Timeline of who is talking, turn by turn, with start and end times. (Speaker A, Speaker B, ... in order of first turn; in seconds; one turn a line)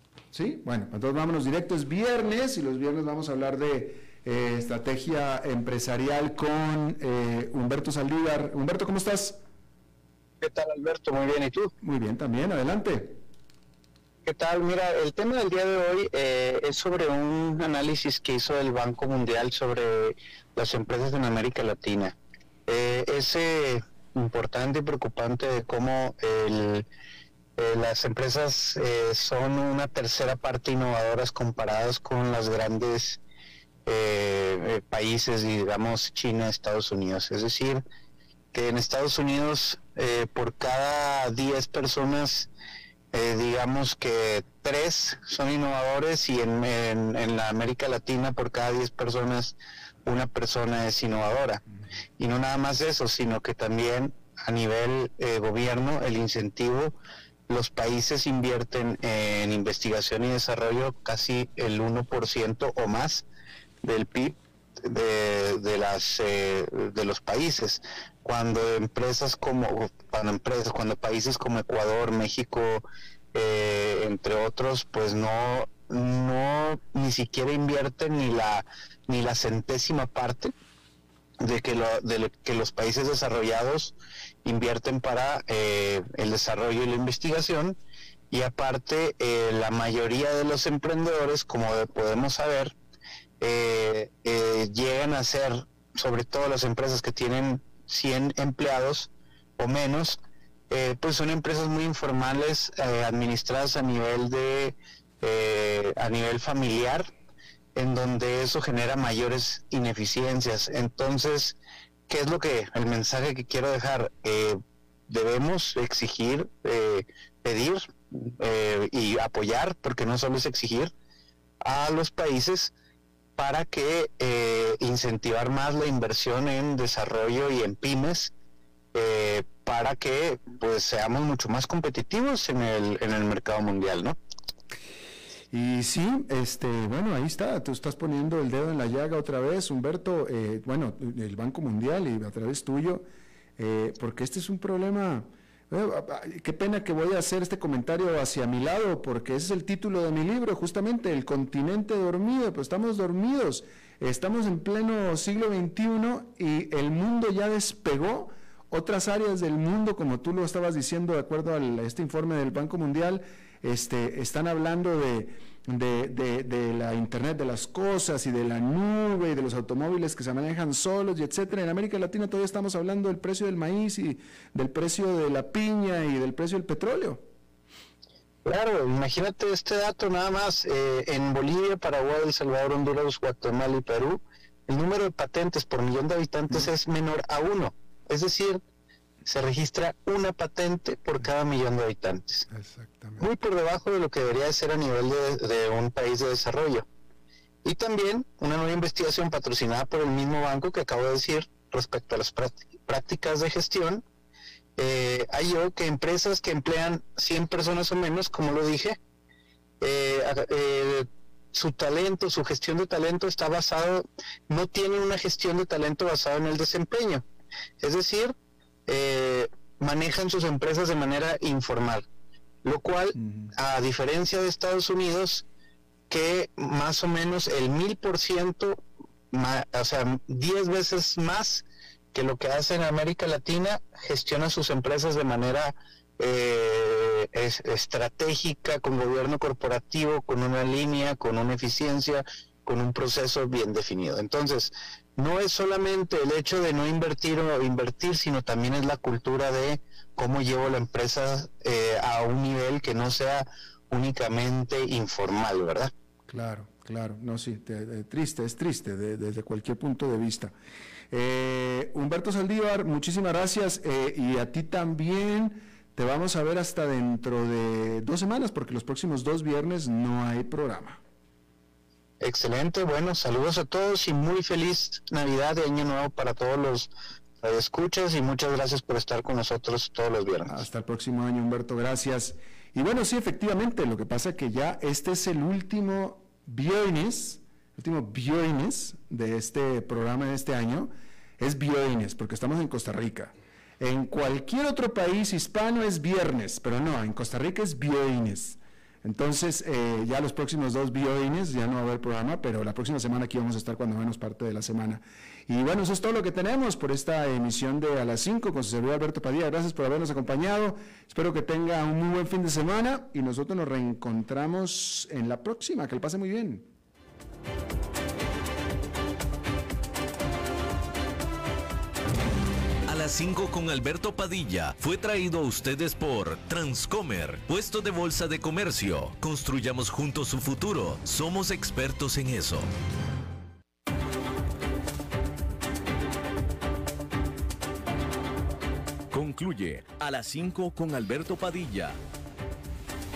Speaker A: 0.3-9.4
Speaker B: 10.4-11.7
Speaker A: 11.8-13.2
Speaker B: 14.2-22.1
Speaker B: 22.7-26.9
Speaker B: 27.6-33.2
Speaker B: 33.9-37.8
Speaker B: 38.5-42.5
Speaker B: 43.1-51.6
Speaker B: 52.2-57.0
Speaker B: 57.5-63.2
Speaker B: 63.8-80.5
Speaker B: 81.4-87.8
Speaker B: 88.3-92.7
Speaker B: 93.4-100.2
Speaker B: 100.7-107.1
Speaker B: 107.8-111.6
Speaker B: 112.1-120.9
Speaker B: 121.6-122.7
Speaker B: 123.4-128.3
Speaker B: 128.9-134.2
Speaker A: 135.5-143.1
Speaker A: 143.6-177.2
Speaker B: 178.4-188.6
Speaker B: 189.2-192.4
Speaker A: 192.5-193.2
Speaker B: 193.2-196.9
Speaker B: 197.6-204.0
Speaker B: 204.8-209.0
Speaker B: 209.8-217.2
Speaker B: 217.8-218.3
Speaker B: 218.9-222.1
Speaker B: 222.6-225.4
Speaker A: 223.2-223.5
Speaker B: 226.1-255.9
Speaker A: 256.3-260.5
Speaker A: 261.1-271.0
Speaker B: 272.2-280.6
Speaker A: 280.5-316.7
Speaker C: 322.9-332.7
Speaker C: 339.1-342.0